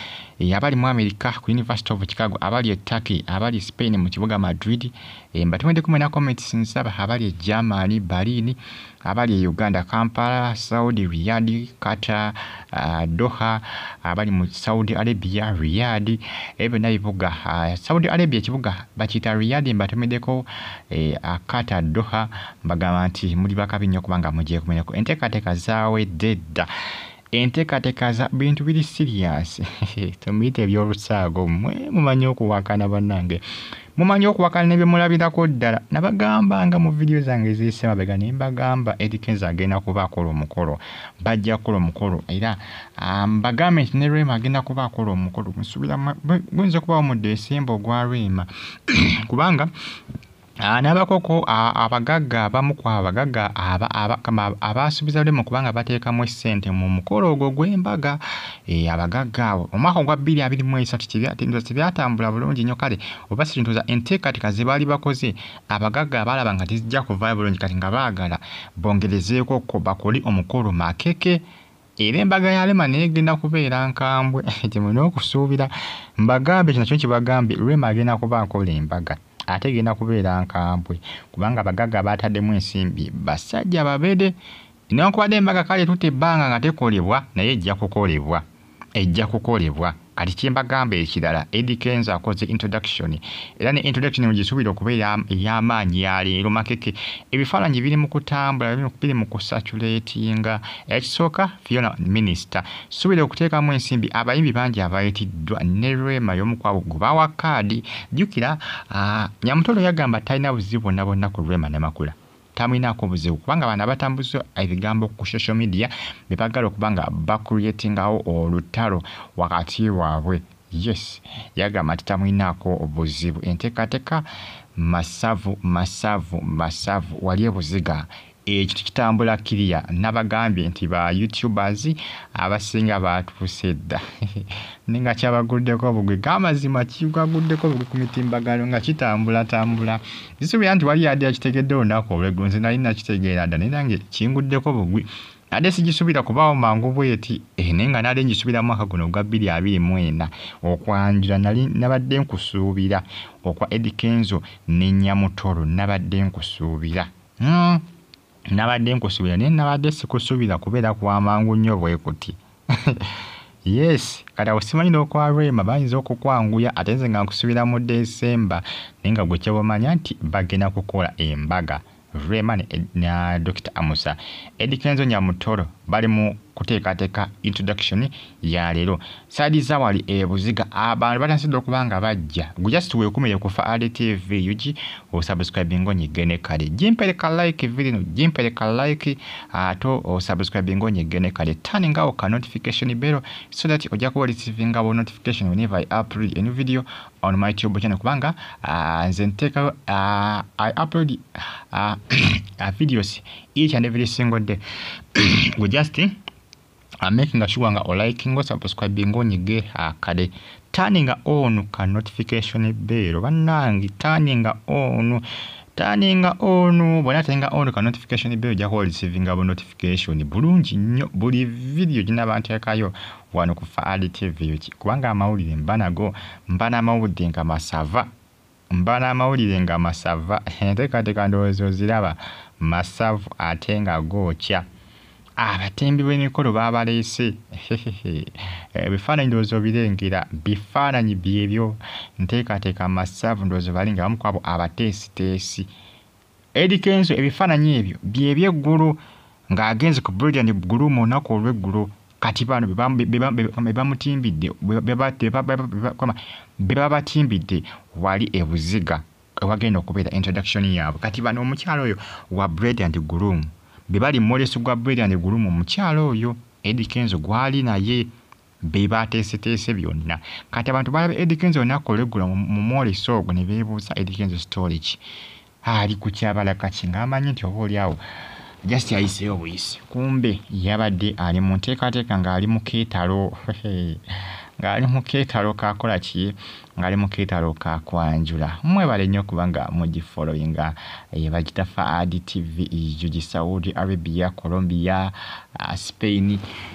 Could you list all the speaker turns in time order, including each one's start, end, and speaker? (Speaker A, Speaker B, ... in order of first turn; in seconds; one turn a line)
Speaker A: 0.4-26.7
Speaker A: 27.3-33.4
Speaker A: 34.0-49.7
Speaker A: 50.6-71.4
Speaker A: 72.0-84.3
Speaker A: 84.9-88.4
Speaker A: 89.0-157.8
Speaker A: 158.5-204.6
Speaker A: 205.2-206.2
Speaker A: 207.0-215.2
Speaker A: 215.8-228.1
Speaker A: 228.7-234.7
Speaker A: 235.4-245.7
Speaker A: 246.6-249.0
Speaker A: 249.5-268.1
Speaker A: 268.6-275.0
Speaker A: 275.6-278.0
Speaker A: 278.6-284.0
Speaker A: 284.6-296.4